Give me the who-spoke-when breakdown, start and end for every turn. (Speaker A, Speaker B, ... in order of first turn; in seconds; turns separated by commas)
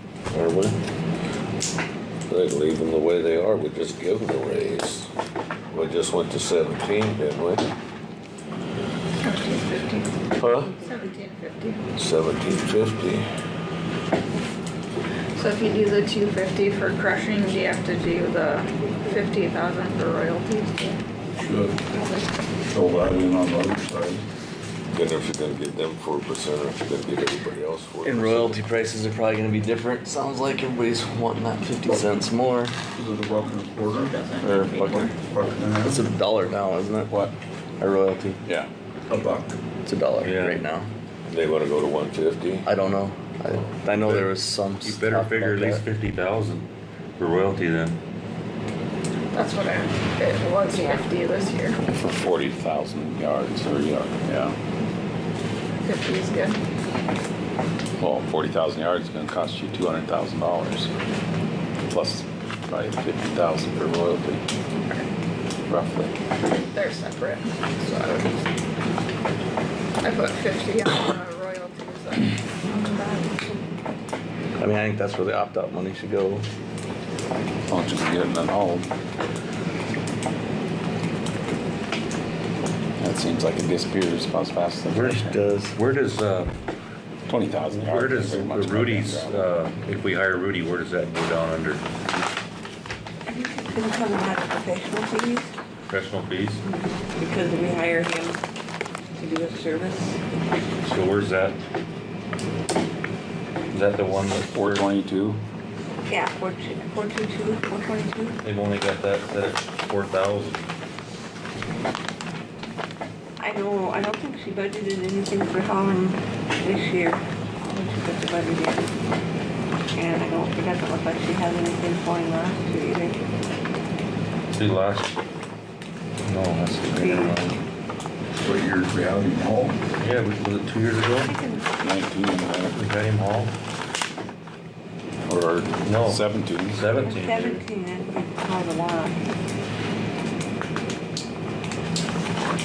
Speaker A: 0.3-0.8, Speaker A: 2.3-5.1, Speaker A: 5.7-7.7, Speaker B: 9.2-10.1, Speaker A: 10.4-10.8, Speaker B: 10.7-11.8, Speaker A: 12.0-13.3, Speaker B: 15.4-21.0, Speaker C: 21.4-21.8, Speaker B: 21.9-22.3, Speaker C: 22.7-24.2, Speaker A: 24.9-28.6, Speaker D: 28.0-32.7, Speaker C: 32.9-34.1, Speaker B: 33.9-35.2, Speaker E: 34.4-35.1, Speaker C: 34.9-36.0, Speaker D: 35.8-37.1, Speaker E: 37.1-37.4, Speaker D: 37.8-38.4, Speaker C: 39.1-39.6, Speaker D: 39.9-40.9, Speaker F: 40.2-40.7, Speaker A: 41.3-42.7, Speaker D: 42.6-45.9, Speaker F: 44.8-46.7, Speaker F: 47.2-48.0, Speaker B: 49.3-51.8, Speaker E: 52.0-54.6, Speaker B: 55.8-56.6, Speaker E: 58.0-60.9, Speaker E: 61.9-64.4, Speaker B: 64.7-65.1, Speaker E: 65.7-66.1, Speaker B: 66.5-68.3, Speaker B: 70.0-73.6, Speaker D: 74.6-76.5, Speaker E: 77.7-78.9, Speaker E: 83.0-85.4, Speaker F: 84.9-86.5, Speaker D: 85.2-85.8, Speaker E: 87.3-89.5, Speaker F: 87.7-91.8, Speaker G: 93.3-95.5, Speaker F: 95.9-96.6, Speaker G: 96.7-98.4, Speaker G: 99.2-100.2, Speaker F: 100.8-101.6, Speaker F: 103.7-104.8, Speaker E: 104.5-105.4, Speaker G: 106.1-108.4, Speaker F: 108.4-110.7, Speaker G: 113.4-118.9, Speaker G: 120.0-123.2, Speaker F: 124.5-125.1, Speaker F: 126.2-127.6, Speaker G: 126.9-127.5, Speaker C: 128.4-129.8, Speaker F: 130.0-131.3, Speaker G: 131.2-131.7, Speaker E: 131.8-132.8, Speaker F: 132.7-133.5, Speaker E: 135.3-136.9, Speaker F: 135.8-137.6, Speaker G: 137.0-139.2